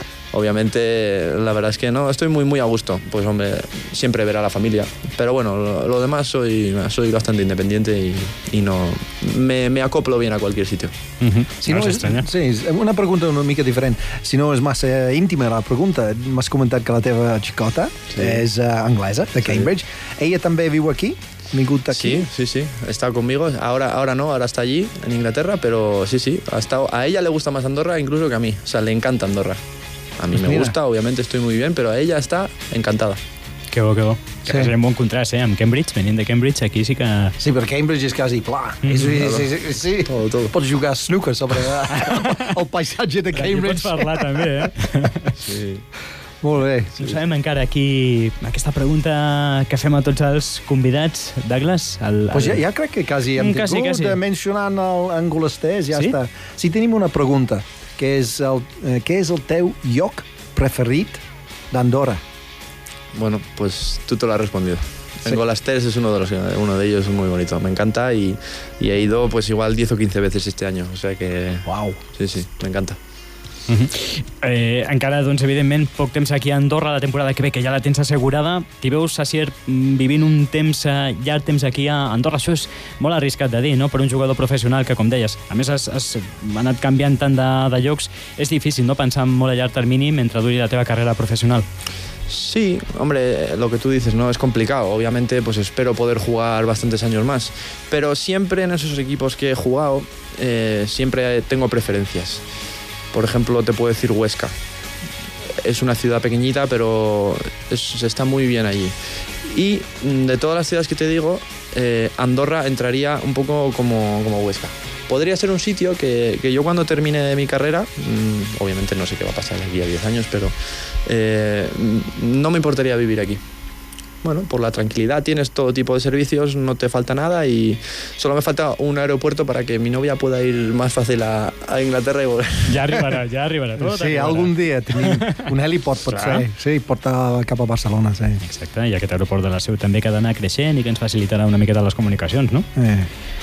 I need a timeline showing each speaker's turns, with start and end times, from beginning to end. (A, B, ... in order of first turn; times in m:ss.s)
0:00.3-0:10.9 A
0:11.2-0:12.3 B
0:11.6-0:22.3 C
0:18.1-0:18.4 A
0:19.4-0:19.7 A
0:21.9-0:29.6 A
0:30.2-0:33.2 A
0:30.4-0:30.8 C
0:33.7-0:37.4 B
0:34.5-0:34.7 C
0:37.4-0:44.7 C
0:38.8-0:39.2 B
0:39.2-0:39.5 A
0:40.0-0:40.6 A
0:41.9-0:42.5 B
0:43.3-0:45.4 B
0:45.4-0:45.8 A
0:46.4-0:47.0 C
0:47.0-0:52.6 B
0:52.3-1:02.2 C
0:53.3-0:54.2 B
1:03.1-1:13.0 A
1:11.6-1:12.0 C
1:13.7-1:31.6 B
1:32.3-1:42.4 A
1:43.1-1:44.5 A
1:45.6-2:00.6 A
2:01.1-2:03.4 A
2:04.2-2:13.0 A
2:12.7-2:15.5 B
2:13.8-2:18.4 C
2:16.1-2:16.4 B
2:18.4-2:22.6 B
2:22.8-2:23.1 C